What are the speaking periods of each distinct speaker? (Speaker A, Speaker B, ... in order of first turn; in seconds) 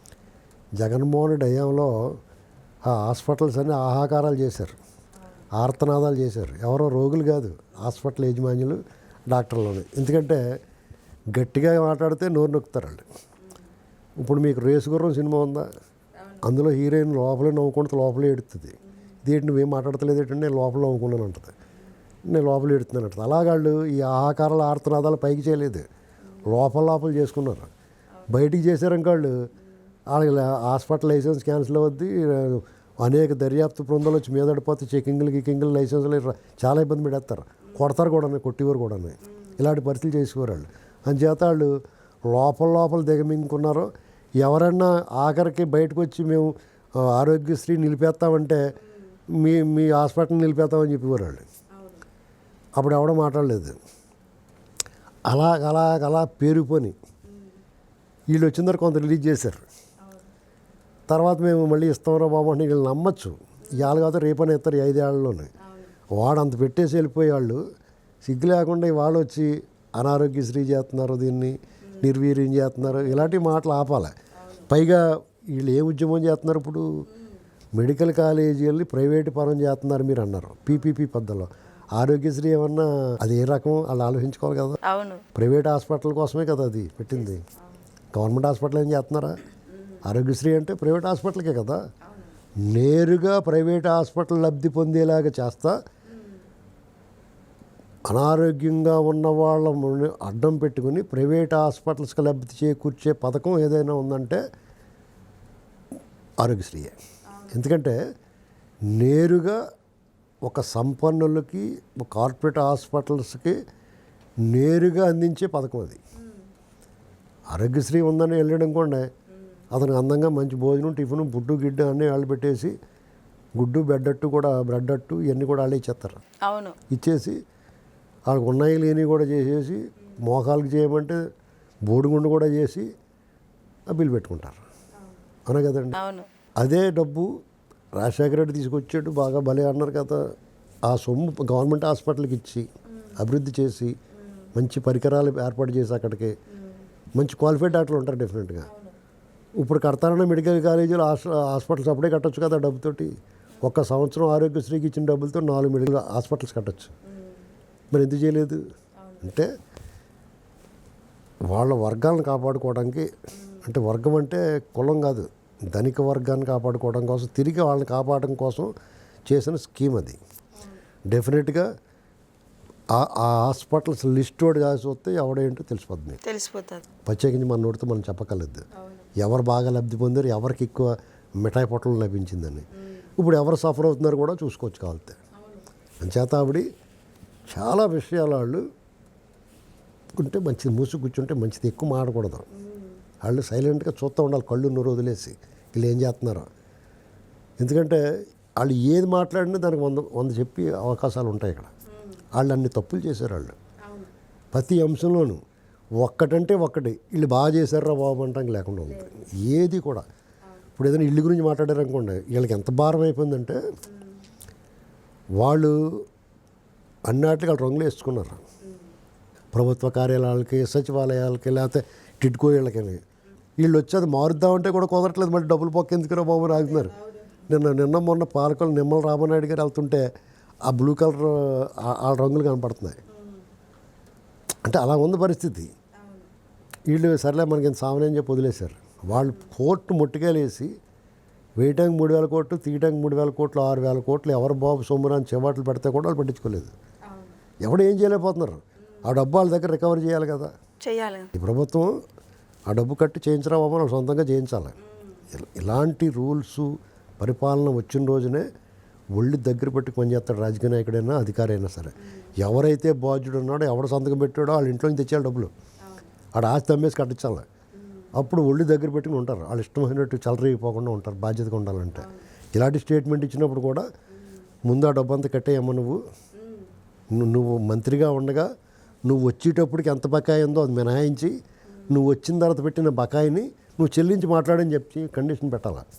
Speaker A: 0.8-2.2, 2.9-4.8, 5.5-10.4, 11.3-13.1, 14.2-15.7, 16.4-21.5, 22.3-25.9, 26.4-27.7, 28.3-29.3, 30.1-41.7, 42.3-48.6, 49.4-51.5, 52.8-53.8, 55.3-56.9, 58.3-59.6, 61.1-65.5, 66.1-67.6, 68.2-74.1, 74.7-76.8, 77.8-84.8, 85.3-87.4, 88.1-89.4, 90.0-91.8, 92.7-95.7, 98.1-104.4, 106.4-106.9, 107.5-108.0, 108.9-109.6, 110.4-113.6, 114.5-116.0, 117.5-119.1, 119.7-122.7, 123.5-126.2, 126.9-127.4, 128.3-131.2, 131.9-132.9, 133.9-134.6, 135.5-136.0, 136.6-137.3, 137.9-140.2, 140.9-143.9, 144.5-146.3, 147.2-148.7, 149.6-153.1, 153.6-156.9, 157.9-158.6, 159.2-159.5, 161.5-163.1, 163.6-168.7, 169.3-170.2, 171.1-171.7, 172.9-176.2, 177.1-185.2, 186.0-186.7, 187.5-188.6, 190.2-192.4, 193.2-196.5, 197.6-198.0, 198.6-201.7, 202.3-203.6, 204.5-205.4, 206.0-210.1, 210.8-213.6, 215.4-216.0, 217.1-218.4, 219.5-223.0, 223.6-226.9, 227.5-230.1, 230.7-233.0, 234.7-235.7, 236.9-240.7, 241.6-246.7, 247.6-250.5, 251.3-251.9, 252.7-254.7, 255.3-258.4, 259.1-265.5, 266.4-267.4, 268.1-273.9, 274.7-276.0, 277.1-278.5, 279.0-281.3, 281.9-285.8
Speaker B: 51.8-52.0, 74.4-74.7, 84.8-85.2, 92.1-92.3, 126.5-126.8, 135.9-136.3, 148.7-148.9, 176.2-176.8, 178.8-179.1, 185.4-185.7, 192.6-193.0, 213.9-214.2, 226.6-227.3, 233.2-233.4, 250.8-251.3, 272.0-272.2, 276.4-276.7